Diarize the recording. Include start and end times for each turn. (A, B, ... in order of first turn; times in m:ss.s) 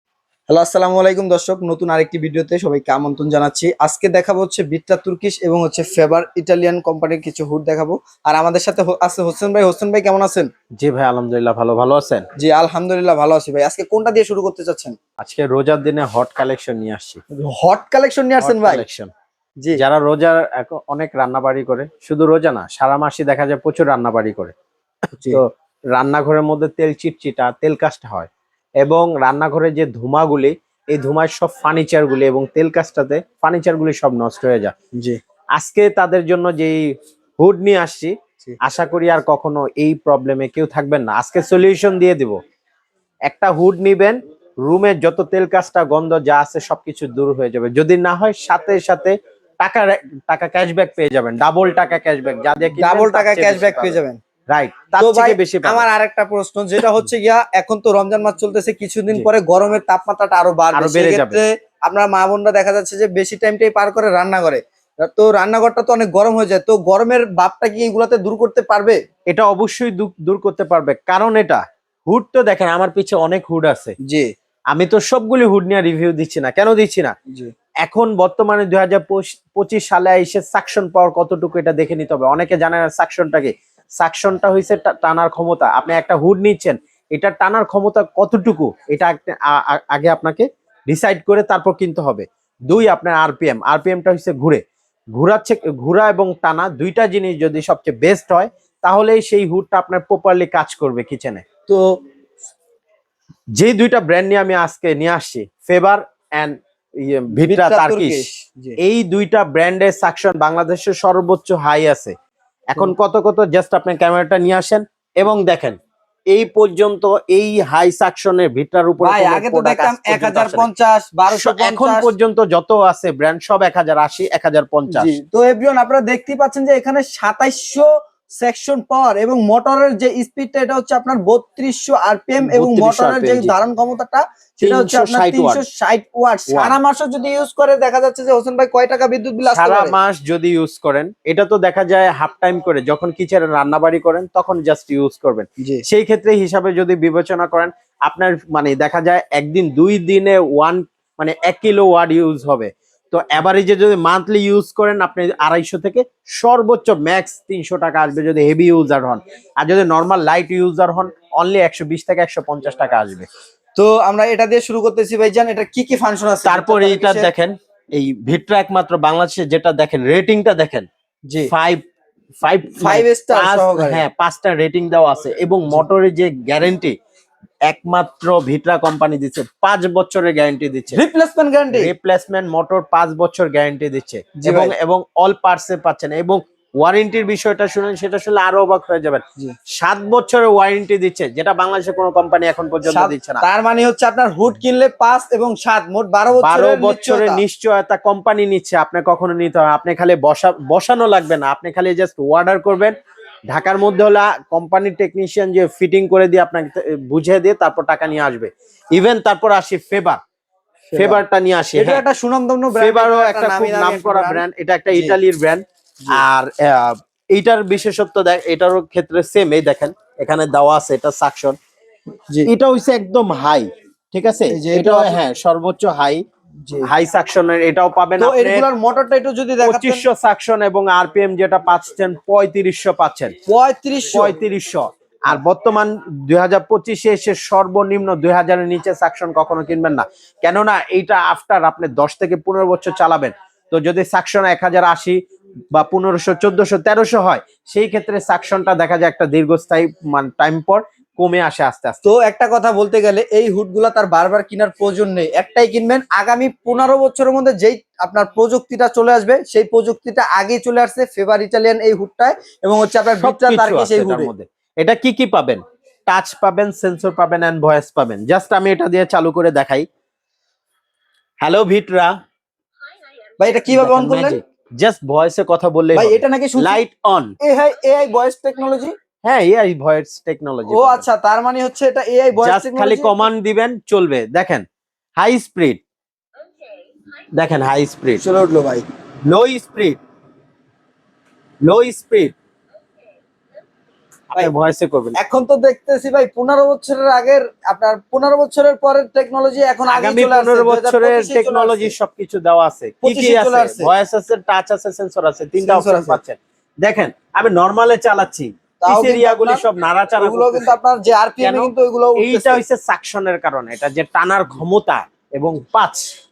0:00.5-0:10.5 A
0:10.8-0:12.3 B
0:12.4-0:15.0 A
0:15.2-0:17.2 B
0:17.4-0:18.8 A
0:18.4-0:19.1 B
0:19.7-0:24.5 B
0:25.2-0:28.3 B
0:28.8-0:34.7 B
0:35.6-0:36.8 B
0:37.4-0:42.4 B
0:43.3-0:54.0 B
0:52.8-0:54.2 A
0:54.5-0:55.8 B
0:55.0-1:09.0 A
1:00.7-1:01.4 B
1:09.3-1:13.9 B
1:14.0-1:14.3 A
1:14.7-1:17.1 B
1:17.8-1:34.6 B
1:35.1-1:41.4 B
1:43.6-1:48.2 B
1:47.4-1:48.8 A
1:48.8-1:52.1 B
1:52.7-1:55.8 B
1:56.3-2:00.7 B
1:59.0-2:02.1 A
2:01.3-2:05.1 B
2:04.9-2:07.9 A
2:08.4-2:19.9 A
2:12.4-2:13.5 B
2:14.6-2:15.6 B
2:16.5-2:16.8 B
2:19.4-2:43.3 B
2:43.8-2:47.3 A
2:46.4-2:50.9 B
2:51.5-2:51.8 B
2:52.4-2:57.0 B
2:52.8-2:54.0 A
2:57.7-3:01.0 B
3:00.9-3:01.9 A
3:01.7-3:09.2 B
3:04.4-3:04.7 A
3:09.8-3:13.4 B
3:12.9-3:17.4 A
3:16.3-3:22.9 B
3:23.5-3:30.2 B
3:30.9-3:31.2 A
3:30.9-3:32.0 B
3:31.7-3:35.2 A
3:32.8-3:41.6 B
3:42.4-3:46.2 B
3:44.5-3:45.2 A
3:46.8-3:48.7 B
3:48.2-3:50.0 A
3:49.6-3:53.3 B
3:53.5-3:54.4 A
3:54.1-4:05.2 B
4:05.7-4:12.0 B
4:12.0-4:24.3 A
4:23.2-4:29.8 B
4:31.4-4:32.1 B
4:33.4-4:34.4 A
4:33.7-4:37.3 B
4:35.9-4:36.8 A
4:37.4-4:38.9 A
4:39.2-4:41.0 B
4:40.7-4:43.2 A
4:42.4-4:44.6 B
4:45.2-4:45.8 B
4:47.3-4:48.2 B
4:48.2-4:48.8 A
4:49.2-4:50.0 B
4:51.6-4:52.3 B
4:54.3-4:55.2 B
4:55.2-5:01.9 A
4:59.9-5:10.8 B
5:03.0-5:03.9 A
5:05.6-5:06.2 A
5:08.8-5:09.6 A
5:10.2-5:12.6 A
5:11.4-5:16.1 B